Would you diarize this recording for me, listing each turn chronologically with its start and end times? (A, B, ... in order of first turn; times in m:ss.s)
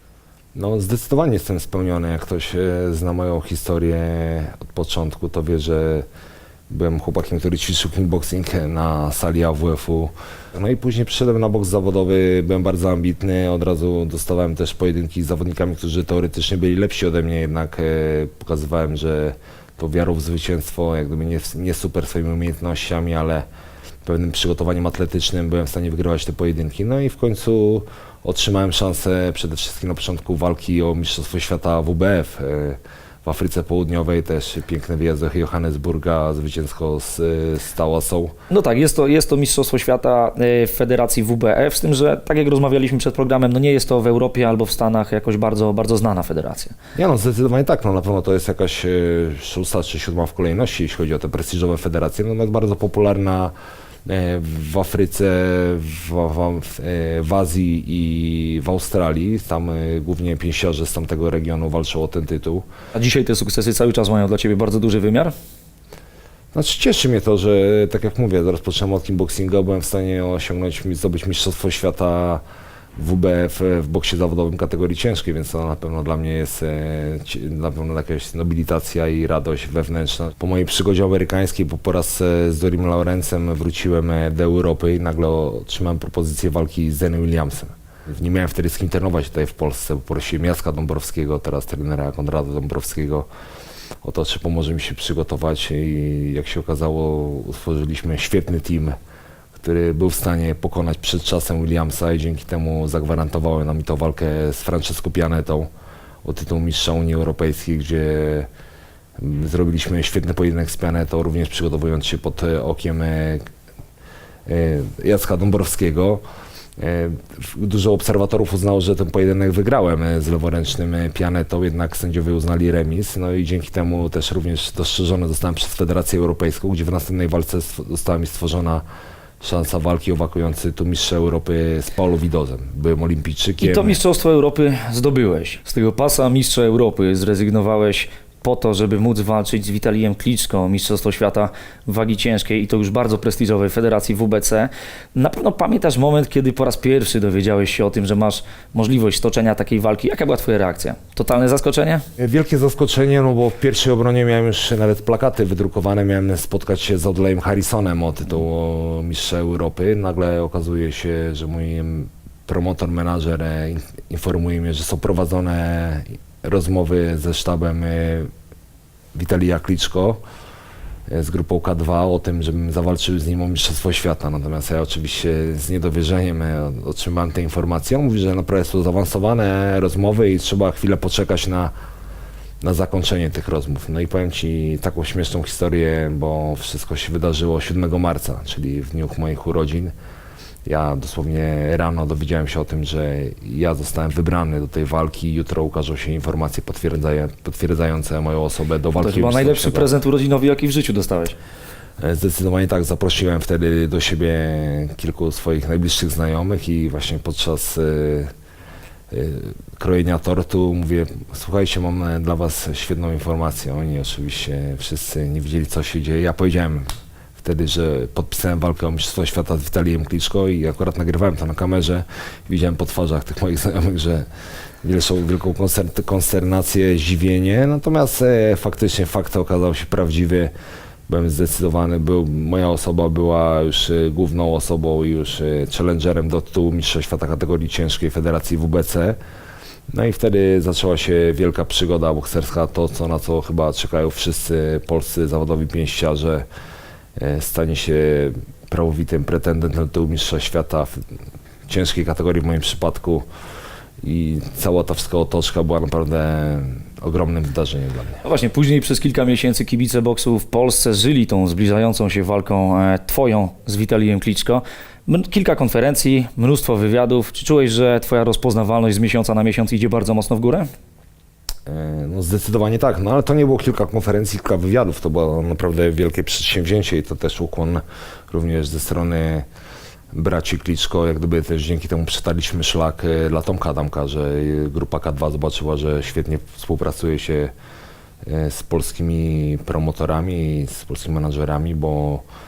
0:00.6-0:06.1 A
0:06.7-0:23.5 A
0:24.0-0:38.3 A
0:38.5-0:46.8 B
0:47.0-0:53.5 A
0:54.1-1:02.7 A
1:02.9-1:05.3 B
1:06.5-1:12.4 A
1:13.0-1:33.3 A
1:34.0-1:39.0 A
1:39.6-1:45.7 A
1:46.2-1:48.5 A
1:49.2-1:53.4 A
1:54.5-1:56.2 A
1:56.8-2:08.8 A
2:09.4-2:14.0 A
2:13.6-2:32.0 B
2:32.2-2:48.3 A
2:49.2-2:50.2 A
2:51.1-3:01.7 A
3:02.6-3:09.9 A
3:10.7-3:19.9 A
3:19.0-3:21.4 B
3:22.0-3:28.3 A
3:29.1-3:36.9 A
3:37.4-3:44.3 A
3:44.8-3:50.5 A
3:51.1-3:59.2 A
3:59.9-4:06.5 A
4:07.2-4:10.9 A
4:11.7-4:13.2 A
4:14.0-4:18.2 A
4:18.2-4:30.7 B
4:31.7-4:39.5 A
4:40.1-4:47.5 A
4:48.2-4:52.2 A